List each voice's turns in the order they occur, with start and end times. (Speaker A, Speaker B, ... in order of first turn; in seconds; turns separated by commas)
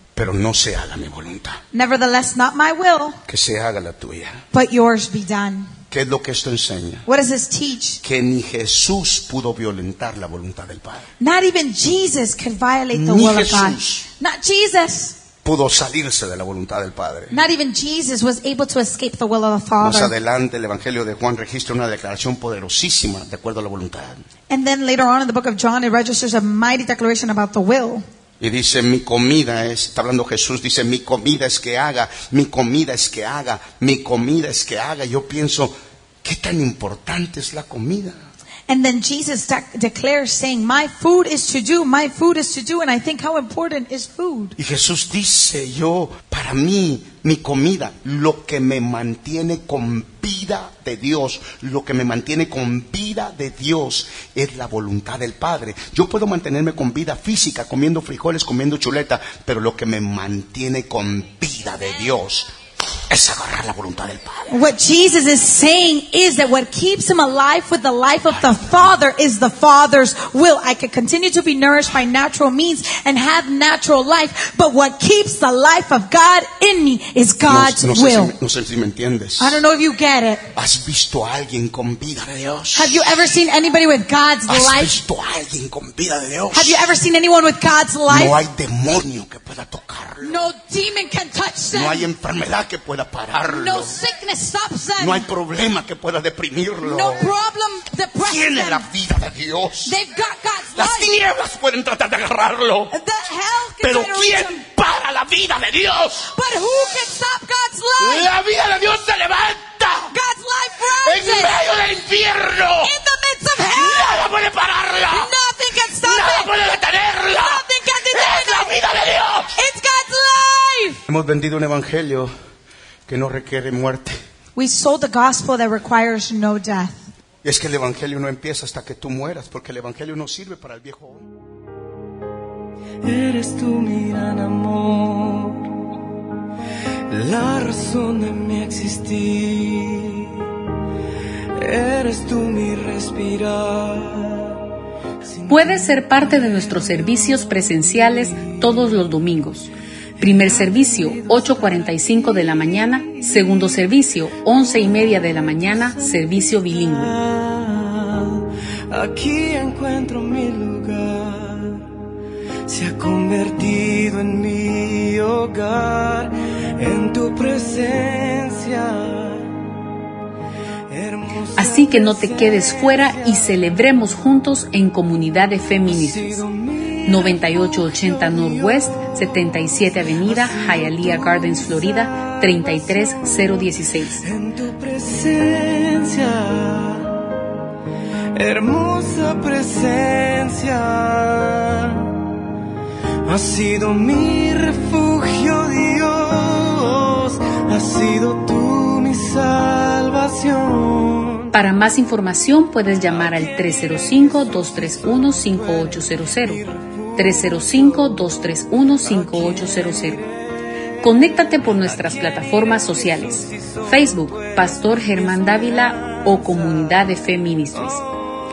Speaker A: 0.1-1.6, Speaker B: 1.7-3.2, Speaker A: 3.3-4.4, Speaker B: 4.5-5.7, Speaker A: 5.9-7.0, Speaker B: 7.1-8.0, Speaker A: 8.0-11.1, Speaker B: 11.2-15.2, Speaker A: 12.9-14.1, Speaker A: 15.4-17.4, Speaker B: 17.3-20.1, Speaker A: 19.8-24.2, Speaker B: 24.5-28.0, Speaker A: 28.4-38.2, Speaker B: 38.7-44.5, Speaker A: 44.6-62.5, Speaker A: 63.1-64.5, Speaker B: 64.5-78.3, Speaker A: 77.5-79.6, Speaker B: 79.4-80.5, Speaker A: 80.5-83.2, Speaker B: 82.7-85.0, Speaker A: 84.5-86.9, Speaker B: 86.5-88.3, Speaker A: 88.1-90.5, Speaker B: 90.2-92.1, Speaker A: 91.7-94.0, Speaker B: 93.5-95.3, Speaker A: 95.0-97.3, Speaker B: 96.8-98.8, Speaker A: 98.2-100.0, Speaker B: 99.8-101.1, Speaker A: 100.7-102.9, Speaker B: 102.9-104.6, Speaker A: 103.8-106.3, Speaker B: 106.2-108.3, Speaker A: 108.0-110.1, Speaker B: 110.1-111.5, Speaker A: 110.9-113.0, Speaker B: 112.8-114.2, Speaker A: 113.7-115.3, Speaker B: 115.1-116.5, Speaker A: 115.9-119.6, Speaker B: 117.3-118.8, Speaker B: 119.5-121.0, Speaker A: 121.1-122.3, Speaker A: 123.1-124.2, Speaker B: 124.5-127.0, Speaker A: 127.4-131.3, Speaker C: 133.0-135.8, Speaker C: 137.1-140.4, Speaker C: 141.6-144.6, Speaker C: 145.2-147.0, Speaker D: 145.5-157.2, Speaker C: 150.2-152.2, Speaker C: 157.0-161.9, Speaker C: 162.7-169.5, Speaker C: 170.9-173.5, Speaker D: 171.6-176.4, Speaker C: 175.9-179.1, Speaker D: 177.1-184.2, Speaker C: 180.2-182.8, Speaker C: 184.2-187.3, Speaker C: 188.3-192.2, Speaker C: 193.2-201.5, Speaker D: 201.5-210.2, Speaker C: 203.2-207.4, Speaker C: 209.1-210.3, Speaker D: 211.0-218.0, Speaker C: 211.9-216.9